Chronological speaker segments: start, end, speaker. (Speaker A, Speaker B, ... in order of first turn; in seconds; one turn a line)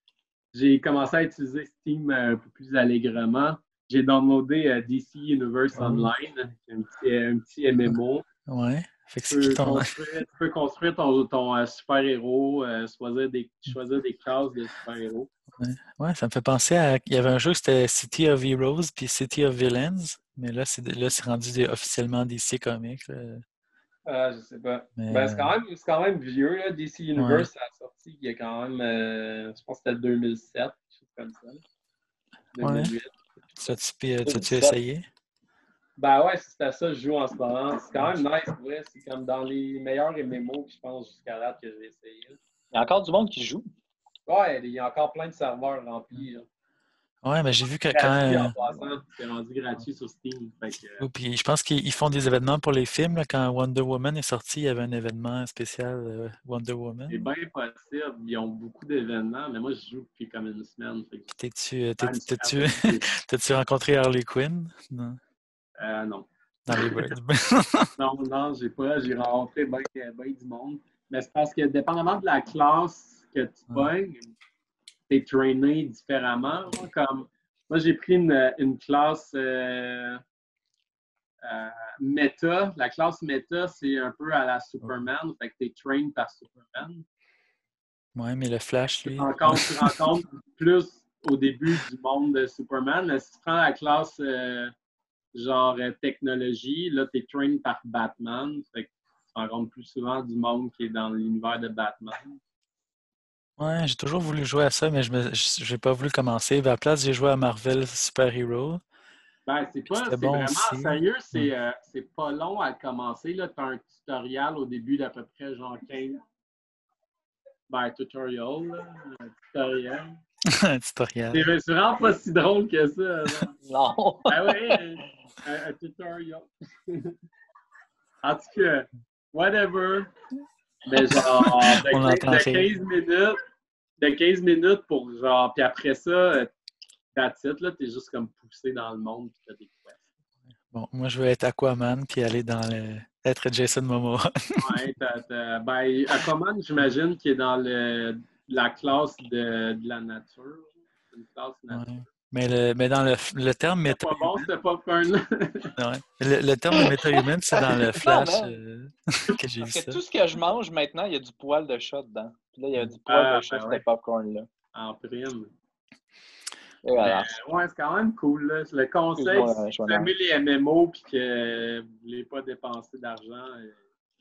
Speaker A: 0.5-8.2
Speaker B: 5.8-6.1
Speaker B: 7.9-9.9
Speaker A: 9.3-15.3
Speaker B: 15.6-23.4
Speaker A: 24.1-31.6
Speaker B: 25.0-25.5
Speaker B: 27.2-27.5
Speaker A: 32.5-33.1
Speaker B: 32.6-32.9
Speaker B: 33.6-35.0
Speaker C: 34.2-34.8
Speaker A: 36.0-42.4
Speaker C: 42.7-43.6
Speaker A: 44.3-46.5
Speaker B: 47.2-48.6
Speaker A: 47.9-51.1
Speaker B: 51.0-57.2
Speaker A: 57.1-61.4
Speaker B: 61.3-65.2
Speaker A: 62.0-63.0
Speaker A: 65.8-67.2
Speaker B: 66.7-67.9
Speaker A: 68.0-74.3
Speaker A: 75.1-80.2
Speaker A: 81.4-87.1
Speaker B: 88.2-90.0
Speaker A: 89.0-94.7
Speaker A: 95.3-102.4
Speaker B: 103.6-108.8
Speaker A: 109.5-116.2
Speaker B: 109.9-111.5
Speaker A: 117.7-120.2
Speaker B: 120.7-121.5
Speaker A: 121.3-123.5
Speaker C: 123.7-124.8
Speaker A: 124.3-127.1
Speaker A: 128.2-130.1
Speaker A: 130.8-133.3
Speaker B: 131.9-132.7
Speaker A: 134.0-136.5
Speaker A: 137.1-140.0
Speaker B: 140.7-144.8
Speaker A: 144.6-152.0
Speaker B: 151.7-154.5
Speaker A: 153.9-155.7
Speaker B: 155.8-160.0
Speaker C: 156.8-158.6
Speaker C: 159.6-164.5
Speaker A: 163.1-163.8
Speaker A: 164.7-165.5
Speaker C: 166.8-167.3
Speaker A: 167.0-173.8
Speaker C: 169.2-170.1